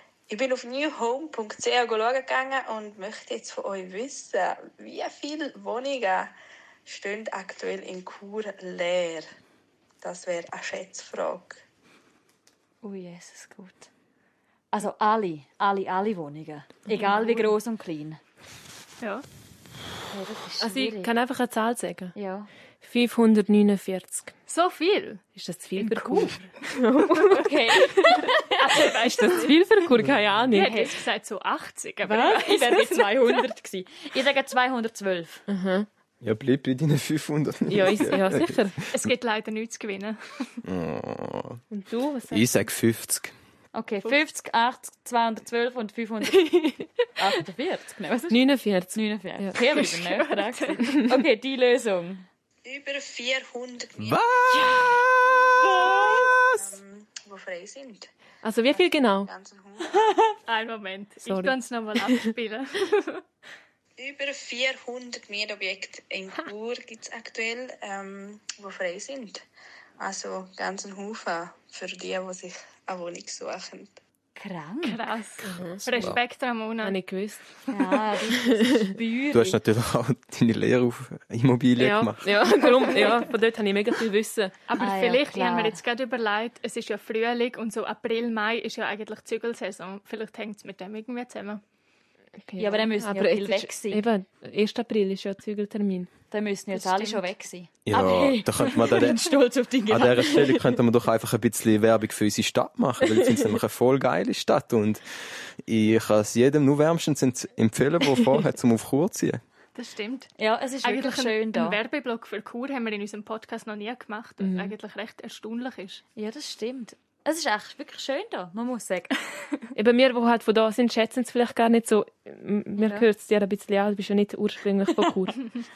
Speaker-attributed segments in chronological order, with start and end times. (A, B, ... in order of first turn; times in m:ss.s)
0:00.3-0:06.3 A
0:06.8-0:09.3 A
0:10.0-0:11.6 A
0:12.8-0:13.9 B
0:14.7-0:18.2 B
0:16.9-0:17.5 C
0:20.1-0:21.1 B
0:20.6-0:22.1 D
0:22.1-0:22.5 B
0:22.8-0:24.3 D
0:24.5-0:25.2 C
0:25.4-0:31.0 D
0:25.8-0:26.3 B
0:27.3-0:28.9 B
0:28.6-0:29.5 C
0:30.5-0:33.4 C
0:32.0-0:35.4 B
0:35.5-0:35.9 D
0:36.2-0:39.1 E
0:37.7-0:38.8 D
0:38.9-0:40.6 C
0:40.6-0:41.6 E
0:41.7-0:42.6 D
0:42.3-0:43.3 E
0:43.7-0:46.5 B
0:46.4-0:46.9 D
0:47.2-0:52.3 B
0:48.3-0:49.6 D
0:49.7-0:50.7 C
0:52.6-0:54.5 A
0:54.0-0:56.8 E
0:55.8-0:58.1 A
0:58.4-0:59.3 D
0:58.8-1:00.2 A
1:00.5-1:03.2 C
1:01.2-1:02.3 D
1:04.0-1:09.4 A
1:10.0-1:14.0 A
1:14.4-1:15.0 B
1:14.8-1:17.0 C
1:15.4-1:16.1 D
1:16.8-1:17.4 D
1:17.7-1:19.6 B
1:18.3-1:18.8 D
1:19.3-1:22.5 E
1:21.8-1:24.6 D
1:24.7-1:31.6 C
1:24.8-1:25.8 B
1:32.5-1:36.1 D
1:32.6-1:34.0 B
1:36.3-1:40.6 B
1:36.7-1:37.2 C
1:37.8-1:39.2 E
1:39.9-1:45.0 E
1:45.6-1:49.4 E
1:49.7-1:56.0 C
1:50.4-1:51.8 B
1:54.4-1:54.7 D
1:56.2-1:59.2 B
1:59.7-2:05.4 D
2:02.8-2:03.0 B